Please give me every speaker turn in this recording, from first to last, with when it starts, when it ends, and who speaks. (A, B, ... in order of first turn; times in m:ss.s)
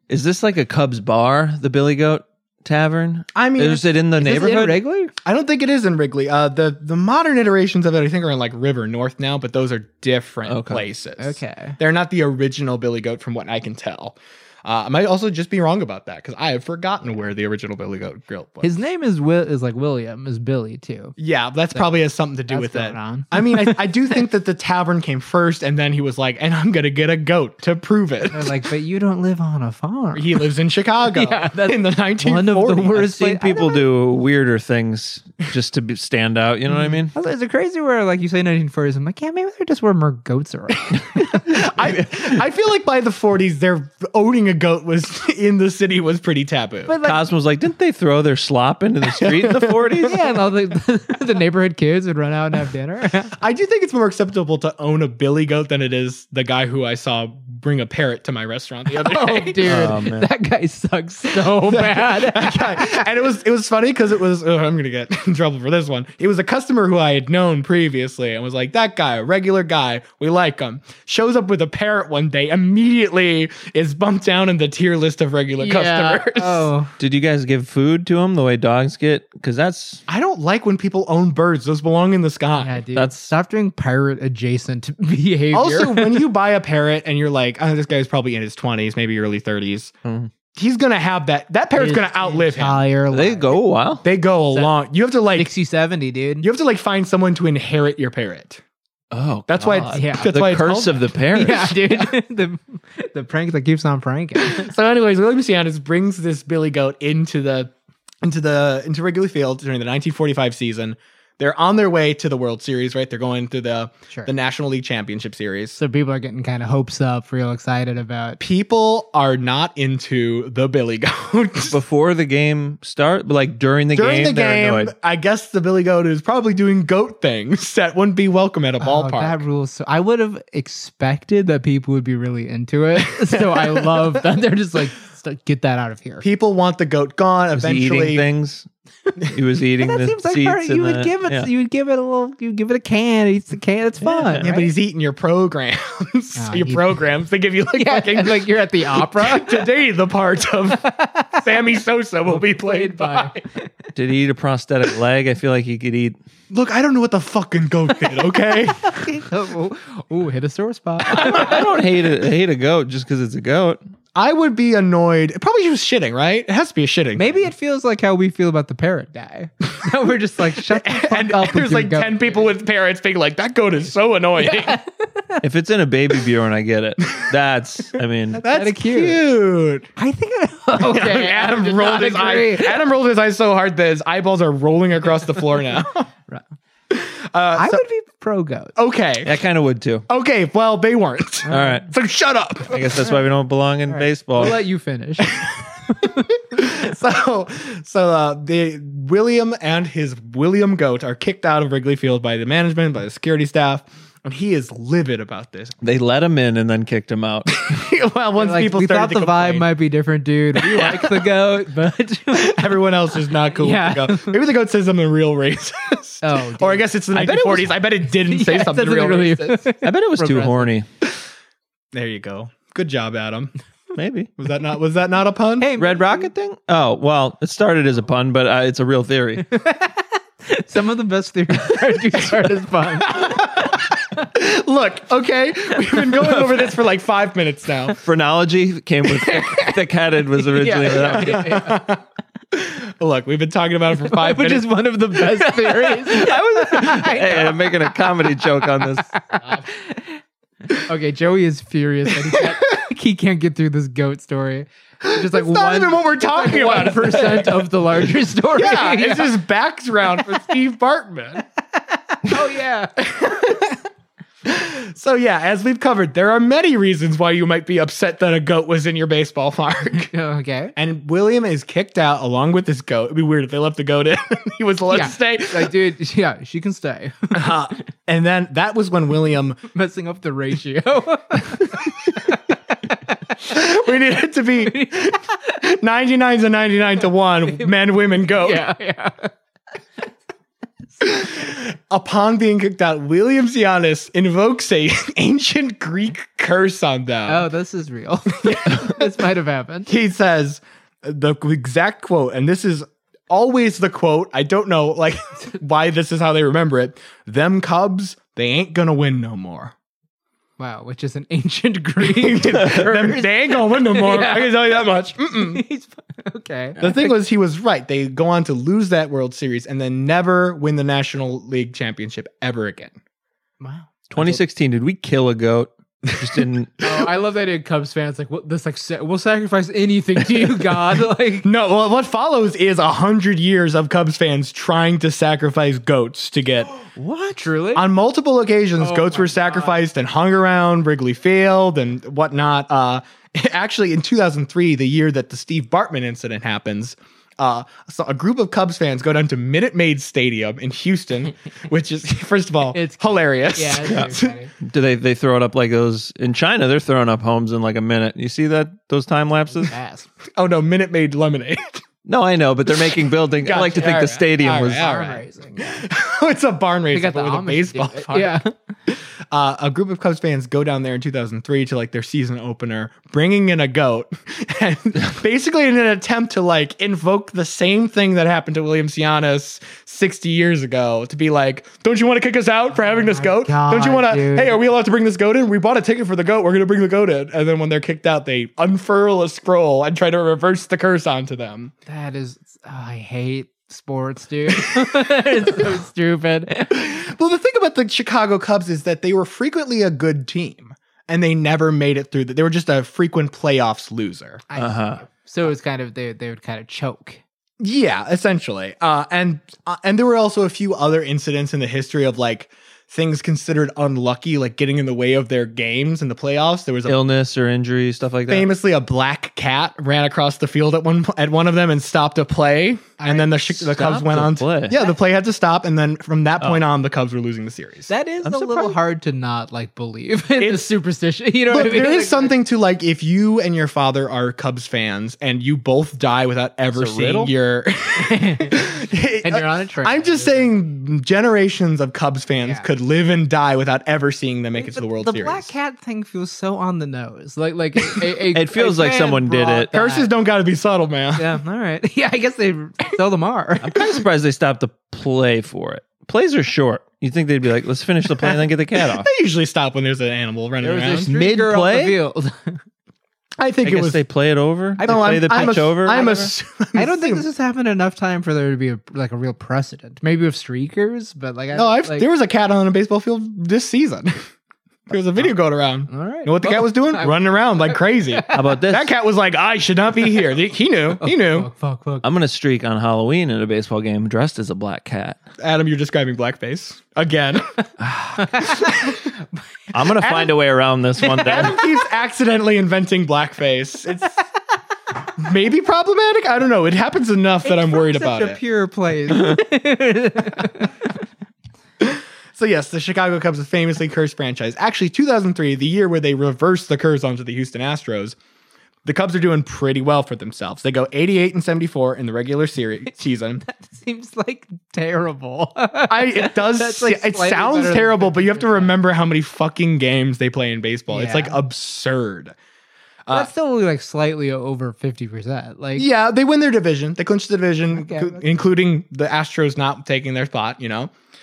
0:00.1-0:04.8 A
0:03.3-0:03.8 B
0:04.2-0:05.1 C
0:05.2-0:18.7 B
0:10.4-0:10.8 A
0:11.2-0:11.8 C
0:18.6-0:21.1 C
0:21.2-0:28.5 B
0:21.7-0:23.9 C
0:28.3-0:30.5 C
0:30.1-0:33.0 B
0:31.1-0:33.8 C
0:32.9-0:37.1 A
0:37.1-0:41.2 C
0:41.3-0:46.9 B
0:46.8-0:47.2 C
0:47.0-0:50.1 A
0:49.1-0:50.2 B
0:50.0-0:53.3 C
0:53.4-0:59.9 B
0:58.9-1:03.0 C
0:59.6-1:00.3 A
1:01.4-1:16.7 B
1:15.6-1:16.9 C
1:17.0-1:20.0 A
1:20.1-1:22.8 B
1:22.6-1:26.2 C
1:22.9-1:23.3 A
1:25.5-1:29.9 B
1:30.0-1:30.3 A
1:30.5-1:32.8 B
1:31.8-1:33.6 C
1:33.1-1:34.0 A
1:34.0-1:35.5 B
1:35.3-1:36.4 C
1:36.4-1:38.6 B
1:39.1-1:41.8 A
1:39.5-1:41.1 B
1:39.9-1:40.3 C
1:41.3-1:44.7 C
1:44.4-1:47.7 B
1:48.2-1:55.8 B
1:55.8-1:58.4 C
1:58.4-2:01.8 B
2:01.7-2:04.9 A
2:03.9-2:09.4 B
2:08.8-2:16.2 C
2:13.2-2:14.0 B
2:16.2-2:18.2 B
2:17.6-2:18.7 A
2:19.3-2:21.5 A
2:19.8-2:24.7 C
2:24.0-2:24.4 A
2:24.3-2:33.4 B
2:26.4-2:27.0 C
2:27.7-2:29.7 C
2:30.8-2:31.4 C
2:32.3-2:33.6 C
2:33.9-2:36.2 A
2:36.5-2:39.1 B
2:38.5-2:41.7 C
2:41.1-2:43.8 A
2:44.1-2:47.5 B
2:47.2-2:52.4 C
2:50.7-2:54.8 B
2:54.4-2:55.4 C
2:55.4-2:58.4 A
2:58.3-2:59.9 B
2:58.4-2:59.2 C
3:00.0-3:02.8 C
3:00.8-3:06.1 B
3:06.9-3:07.8 B
3:07.5-3:08.8 C
3:08.8-3:09.3 B
3:09.2-3:10.0 A
3:10.1-3:12.9 B
3:11.5-3:11.8 C
3:11.5-3:11.9 A
3:12.7-3:14.6 A
3:13.9-3:16.4 C
3:16.0-3:25.8 B
3:25.8-3:27.6 A
3:27.5-3:29.7 B
3:28.4-3:32.8 C
3:30.7-3:31.0 B
3:32.3-3:39.6 B
3:33.4-3:34.4 C
3:36.2-3:40.7 C
3:39.8-3:40.8 A
3:41.9-3:43.5 B
3:43.9-3:44.3 A
3:44.4-3:45.7 B
3:45.6-3:46.3 C
3:45.8-3:49.5 A
3:49.5-3:53.5 C
3:53.0-3:58.0 B
3:58.0-4:01.6 A
3:59.3-3:59.7 C
4:00.4-4:01.9 C
4:01.1-4:06.3 B
4:04.0-4:08.1 C
4:06.1-4:09.1 A
4:08.8-4:10.2 C
4:10.7-4:19.4 C
4:12.3-4:12.5 B
4:15.0-4:17.7 B
4:18.5-4:21.4 B
4:22.1-4:23.0 C
4:23.0-4:23.8 B
4:24.4-4:30.1 B
4:30.1-4:30.7 C
4:30.8-4:35.8 B
4:34.9-4:37.5 C
4:37.3-4:39.6 B
4:39.7-4:42.3 C
4:43.1-4:43.5 C
4:43.4-4:48.6 B
4:44.6-4:45.1 C
4:48.3-4:49.3 C
4:51.0-4:57.5 B
4:57.3-4:59.9 C
4:58.4-4:59.1 B
4:59.9-5:09.7 B
5:10.6-5:14.8 C
5:12.0-5:15.6 B
5:15.3-5:17.1 C
5:16.8-5:23.0 B
5:23.6-5:24.3 C
5:24.1-5:26.8 A
5:26.1-5:26.4 B
5:26.8-5:31.5 C
5:31.4-5:36.8 B
5:37.0-5:37.4 A
5:37.3-5:37.8 C
5:37.7-5:54.4 B
5:38.8-5:39.8 C
5:52.7-5:54.5 C
5:53.9-5:59.7 A
5:59.6-6:00.1 C
6:00.4-6:01.8 B
6:02.0-6:04.8 A
6:03.4-6:31.7 B
6:03.5-6:05.8 C
6:06.9-6:08.5 C
6:22.9-6:24.6 C
6:31.9-6:36.8 C
6:36.7-6:44.4 B
6:44.5-6:47.2 C
6:44.6-6:45.0 A
6:47.6-6:57.0 B
6:56.8-6:58.5 A
6:58.3-7:07.9 B
7:03.0-7:03.7 C
7:03.6-7:04.7 A
7:07.9-7:12.3 C
7:08.2-7:08.7 A
7:10.4-7:10.7 B
7:11.5-7:25.5 B
7:16.7-7:17.3 A
7:18.0-7:20.5 C
7:22.4-7:22.7 C
7:24.6-7:30.1 C
7:28.3-7:29.7 A
7:29.7-7:31.3 B
7:31.2-7:33.8 C
7:33.6-7:39.1 A
7:38.2-7:41.1 B
7:40.6-7:42.6 C
7:40.9-7:42.0 A
7:43.4-7:44.0 B
7:43.6-7:46.3 A
7:44.8-7:52.1 C
7:44.8-7:47.2 B
7:51.5-7:54.2 B
7:54.9-8:01.5 B
7:55.9-7:58.4 C
7:58.3-7:58.9 A
8:01.0-8:02.0 C
8:02.0-8:05.2 A
8:05.4-8:07.7 B
8:07.8-8:08.4 A
8:08.3-8:08.6 C
8:08.3-8:09.1 B
8:09.7-8:11.6 A
8:10.0-8:10.3 B
8:11.0-8:14.2 B
8:15.2-8:18.4 B
8:17.4-8:20.7 C
8:21.8-8:28.2 B
8:28.8-8:33.4 B
8:33.4-8:38.7 C
8:35.9-8:42.3 B
8:40.9-8:41.4 C
8:43.0-8:43.3 B
8:43.1-8:45.9 C
8:45.8-8:50.9 B
8:47.7-8:48.3 C